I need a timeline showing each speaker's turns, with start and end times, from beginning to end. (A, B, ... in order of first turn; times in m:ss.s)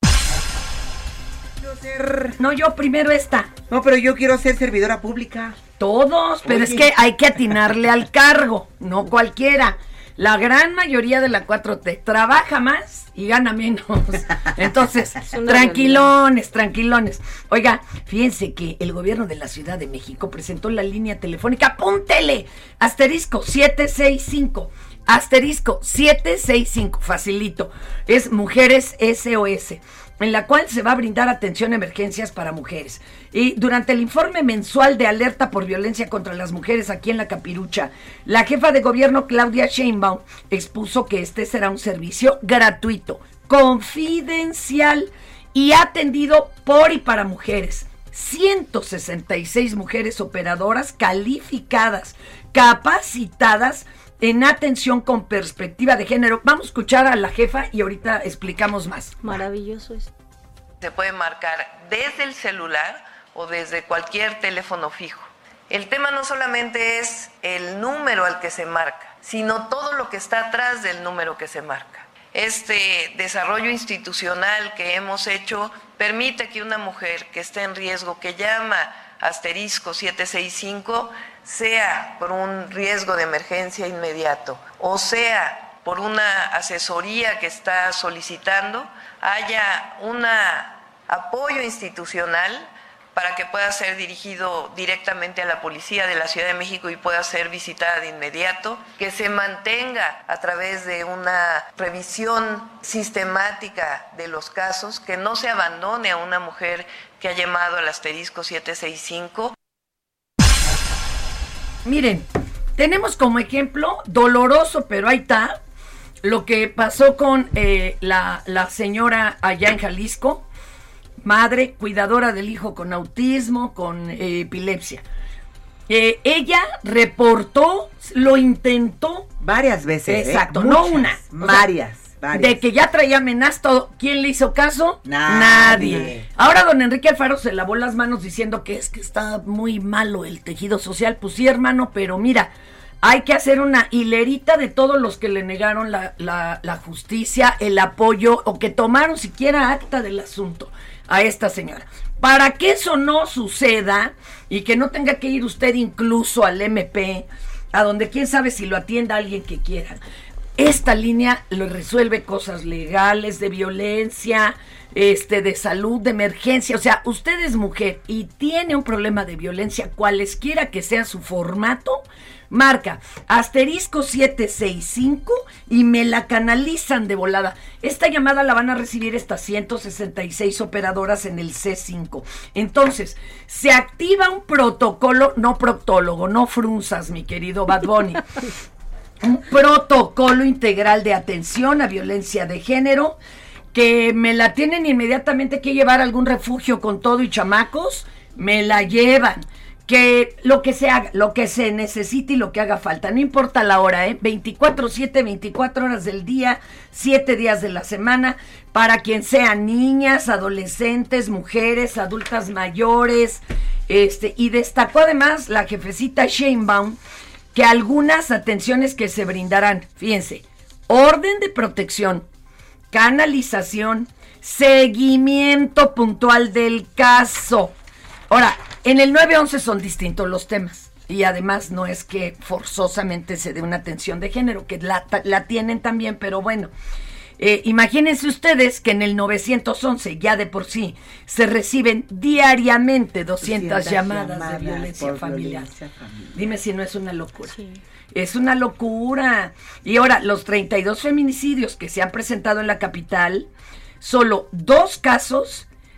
0:01.6-0:02.4 A
0:02.4-0:03.5 B
0:03.7-0:05.6 A
0:05.8-0:59.2 B
0:06.4-0:06.9 A
0:15.3-0:16.1 C
0:59.2-1:00.1 C
1:00.8-1:49.5 D
1:51.8-1:55.6 B
1:56.2-2:00.4 B
2:01.2-2:05.0 B
2:05.9-2:09.3 B
2:09.4-2:12.6 A
2:10.1-2:11.7 B
2:12.3-2:22.5 B
2:15.0-2:16.3 A
2:23.0-2:40.0 B
2:40.6-3:08.3 B
3:09.2-3:13.2 B
3:13.7-3:37.0 B
3:37.5-3:42.3 B
3:42.9-3:47.7 B
3:48.3-3:56.7 B
3:57.4-4:05.7 B
4:03.4-4:06.4 A
4:06.3-4:07.6 B
4:07.5-4:07.8 C
4:08.1-4:13.5 B
4:14.0-4:15.6 B